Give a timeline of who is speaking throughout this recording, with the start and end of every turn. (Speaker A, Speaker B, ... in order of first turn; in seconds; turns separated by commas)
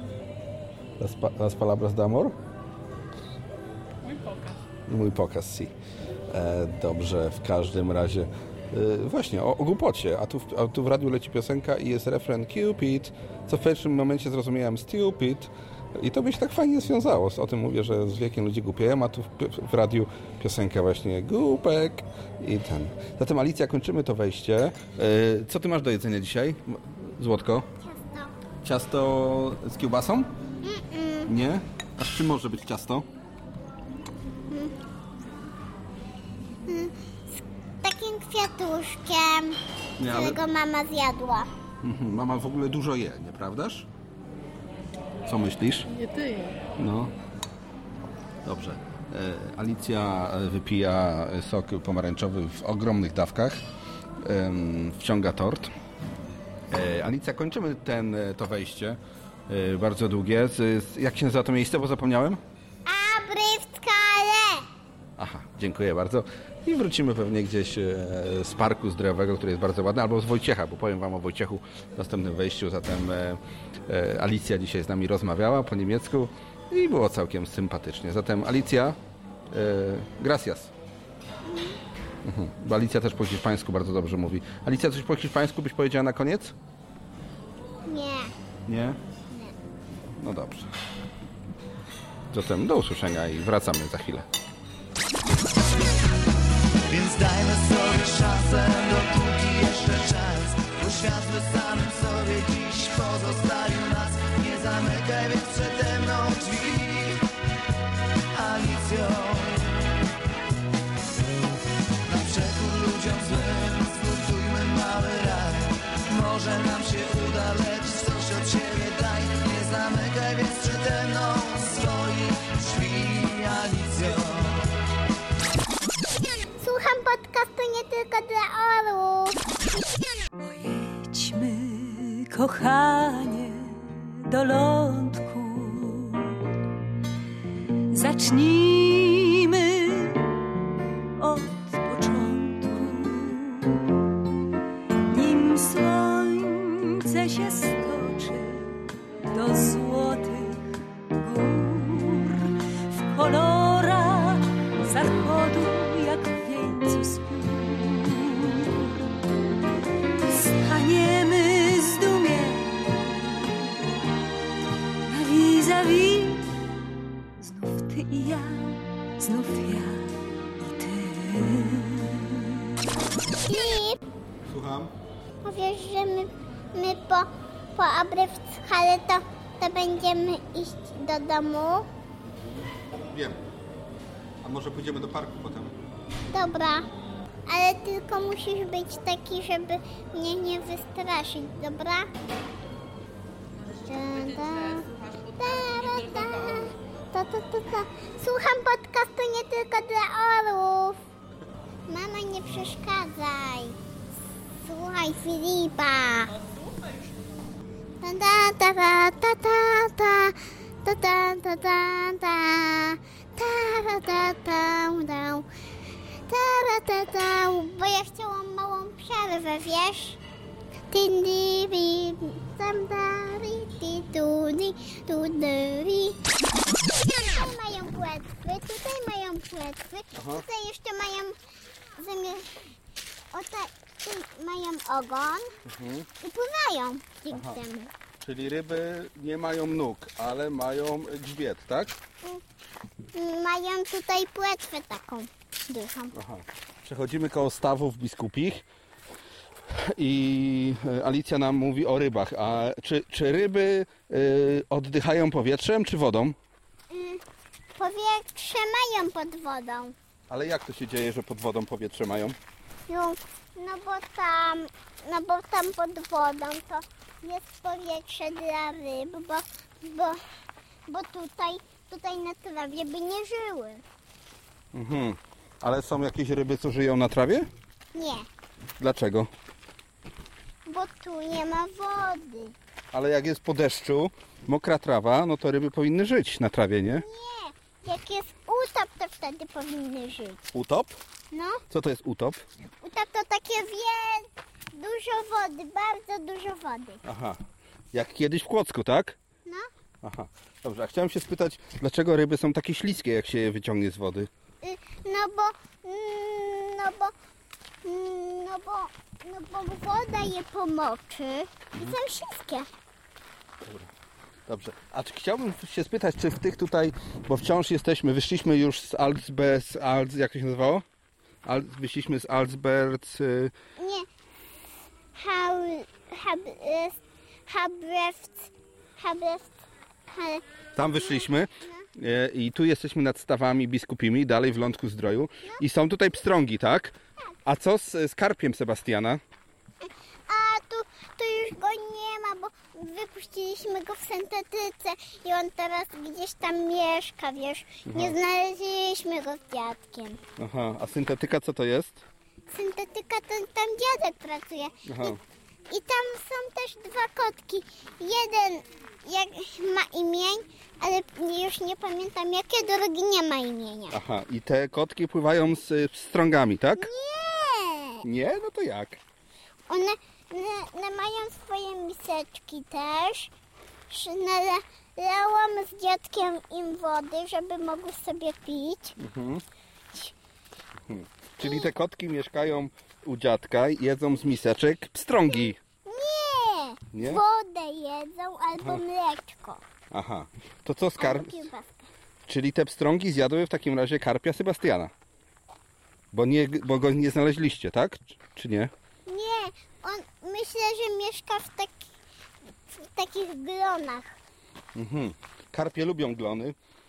Speaker A: 1.0-2.4, Speaker B: 4.0-4.6, Speaker A: 4.9-5.7, Speaker A: 6.3-27.7, Speaker C: 27.8-28.3, Speaker A: 28.6-30.3, Speaker C: 30.6-31.3, Speaker A: 31.3-33.1, Speaker C: 36.7-41.5, Speaker A: 40.0-40.4, Speaker A: 41.8-43.9, Speaker A: 45.3-45.9, Speaker B: 45.9-46.6, Speaker A: 46.8-47.1, Speaker A: 48.4-53.6, Speaker A: 54.2-55.7, Speaker A: 56.7-62.4, Speaker C: 62.9-64.7, Speaker A: 65.2-79.0, Speaker A: 79.5-80.7, Speaker C: 81.5-81.8, Speaker A: 82.2-86.5, Speaker C: 87.9-88.3, Speaker A: 88.7-89.0, Speaker A: 90.2-90.7, Speaker A: 92.3-94.3, Speaker D: 96.9-107.3, Speaker D: 108.3-109.7, Speaker D: 112.0-124.7, Speaker C: 126.6-129.4, Speaker E: 130.4-136.4, Speaker E: 137.9-140.3, Speaker E: 141.2-143.8, Speaker E: 145.1-148.8, Speaker E: 149.3-159.0, Speaker E: 160.3-163.6, Speaker E: 165.1-166.5, Speaker E: 167.4-172.5, Speaker C: 173.5-174.0, Speaker A: 174.4-174.9, Speaker C: 175.4-181.9, Speaker A: 182.9-183.4, Speaker A: 184.4-185.8, Speaker C: 186.3-186.9, Speaker C: 187.5-192.1, Speaker C: 193.9-201.0, Speaker B: 194.2-196.7, Speaker C: 201.9-203.8, Speaker C: 204.6-206.3, Speaker B: 206.3-207.1, Speaker C: 208.0-215.5, Speaker C: 216.3-220.2, Speaker C: 220.9-226.2, Speaker C: 227.3-231.3, Speaker A: 230.2-230.4, Speaker C: 232.0-232.5, Speaker C: 233.3-235.5, Speaker A: 235.7-236.1, Speaker C: 236.2-237.9, Speaker A: 237.3-237.6, Speaker A: 238.2-242.0, Speaker C: 243.1-246.2, Speaker A: 246.1-248.7, Speaker A: 249.7-256.4, Speaker C: 256.9-257.2, Speaker C: 257.8-259.9, Speaker A: 260.3-262.4, Speaker C: 262.9-270.2, Speaker C: 270.9-273.8, Speaker A: 274.7-277.5, Speaker C: 277.9-278.3, Speaker A: 278.8-279.3, Speaker C: 280.7-282.6, Speaker A: 282.9-287.1, Speaker C: 287.0-290.5, Speaker A: 290.5-290.9, Speaker C: 291.3-291.6, Speaker A: 291.7-292.4, Speaker C: 292.8-297.0, Speaker A: 297.0-297.4, Speaker A: 297.9-299.2, Speaker A: 300.0-304.3, Speaker C: 304.6-307.1, Speaker C: 307.8-312.7, Speaker A: 313.6-313.9, Speaker A: 314.5-320.9, Speaker A: 321.4-323.5, Speaker C: 323.8-324.1, Speaker C: 325.1-329.5, Speaker C: 330.1-330.4, Speaker A: 330.8-339.2, Speaker C: 339.8-350.2, Speaker A: 347.9-348.2, Speaker A: 350.4-352.0, Speaker C: 352.5-355.1, Speaker A: 354.9-355.2, Speaker C: 355.7-364.0, Speaker A: 363.9-366.9, Speaker C: 366.8-368.0, Speaker A: 368.0-369.0, Speaker C: 369.7-373.3, Speaker C: 373.9-379.0, Speaker A: 379.0-379.4, Speaker A: 380.9-385.6, Speaker C: 385.9-389.6, Speaker A: 386.9-387.2, Speaker A: 389.9-391.5, Speaker C: 391.0-391.9, Speaker A: 392.3-394.9, Speaker A: 396.1-398.7, Speaker C: 399.1-401.8, Speaker C: 402.8-404.1, Speaker A: 404.8-406.6